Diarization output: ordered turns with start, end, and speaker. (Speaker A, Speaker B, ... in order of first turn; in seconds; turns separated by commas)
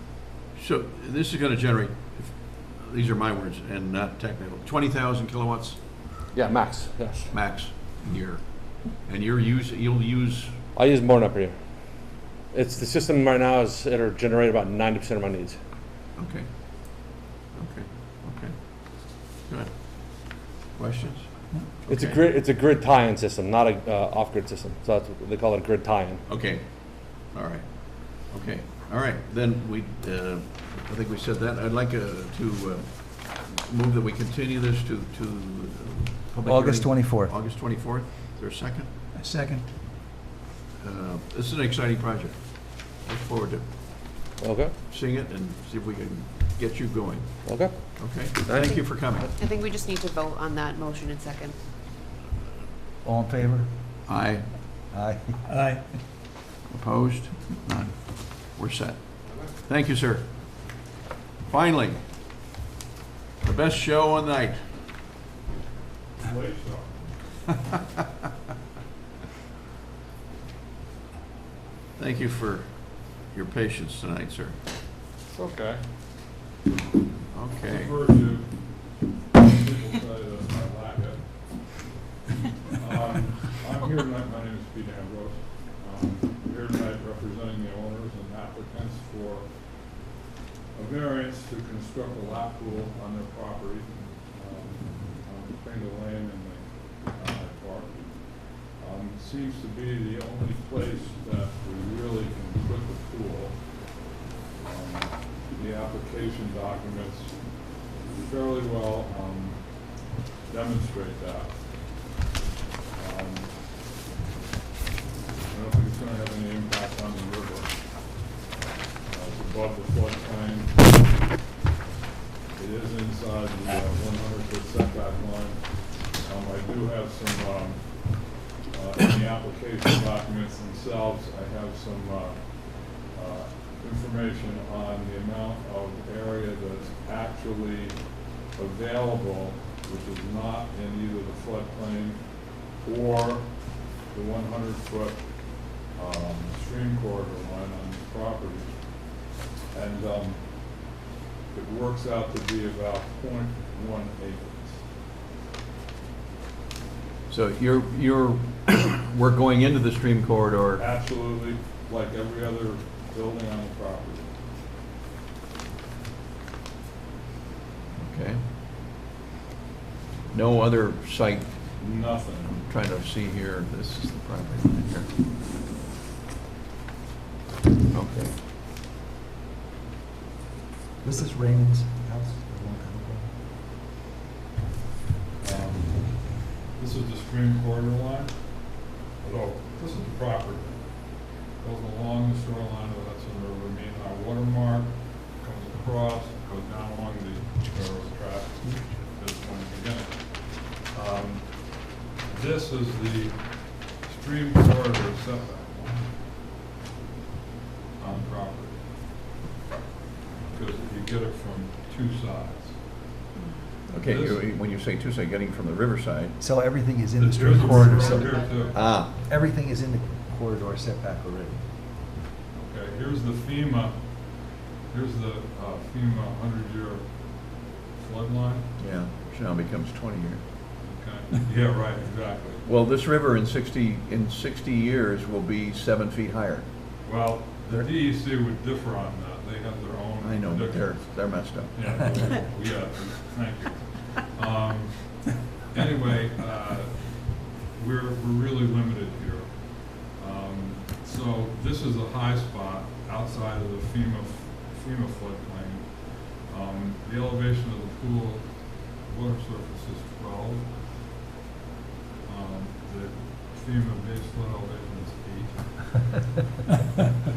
Speaker A: 0.6-6.1, Speaker B: 6.3-7.3, Speaker A: 7.3-10.6, Speaker B: 10.8-15.6, Speaker A: 16.2-22.3, Speaker B: 21.9-26.2, Speaker A: 26.3-38.9, Speaker C: 36.4-37.3, Speaker C: 39.2-39.6, Speaker A: 40.8-43.6, Speaker B: 44.4-44.7, Speaker A: 44.9-49.3, Speaker B: 47.5-48.7, Speaker D: 49.4-51.6, Speaker C: 53.0-53.7, Speaker A: 54.1-54.5, Speaker C: 54.9-55.7, Speaker A: 56.7-60.3, Speaker E: 59.2-59.6, Speaker A: 61.5-62.0, Speaker A: 63.4-64.6, Speaker E: 66.2-67.1, Speaker A: 72.0-74.6, Speaker E: 75.3-75.8, Speaker A: 77.3-78.0, Speaker E: 77.6-81.9, Speaker E: 82.7-90.0, Speaker E: 90.7-104.0, Speaker E: 104.6-112.1, Speaker E: 113.0-113.6, Speaker E: 115.5-117.9, Speaker E: 119.1-121.0, Speaker E: 122.5-151.0, Speaker E: 151.5-154.8, Speaker A: 157.3-160.8, Speaker E: 160.8-164.3, Speaker A: 168.0-168.4, Speaker A: 170.3-171.7, Speaker E: 171.8-172.6, Speaker A: 172.4-175.1, Speaker A: 177.9-178.4, Speaker C: 181.0-183.3, Speaker E: 185.4-206.1, Speaker E: 208.0-208.9, Speaker E: 210.5-212.8, Speaker D: 213.3-213.7, Speaker A: 213.9-216.4, Speaker E: 213.9-214.5, Speaker C: 216.4-221.6, Speaker E: 217.2-218.8, Speaker D: 218.2-218.6, Speaker A: 218.7-219.1, Speaker E: 222.5-228.8, Speaker A: 228.8-230.4, Speaker E: 230.8-232.7, Speaker A: 232.7-236.7, Speaker E: 237.0-260.9, Speaker A: 240.2-242.0, Speaker E: 262.2-266.1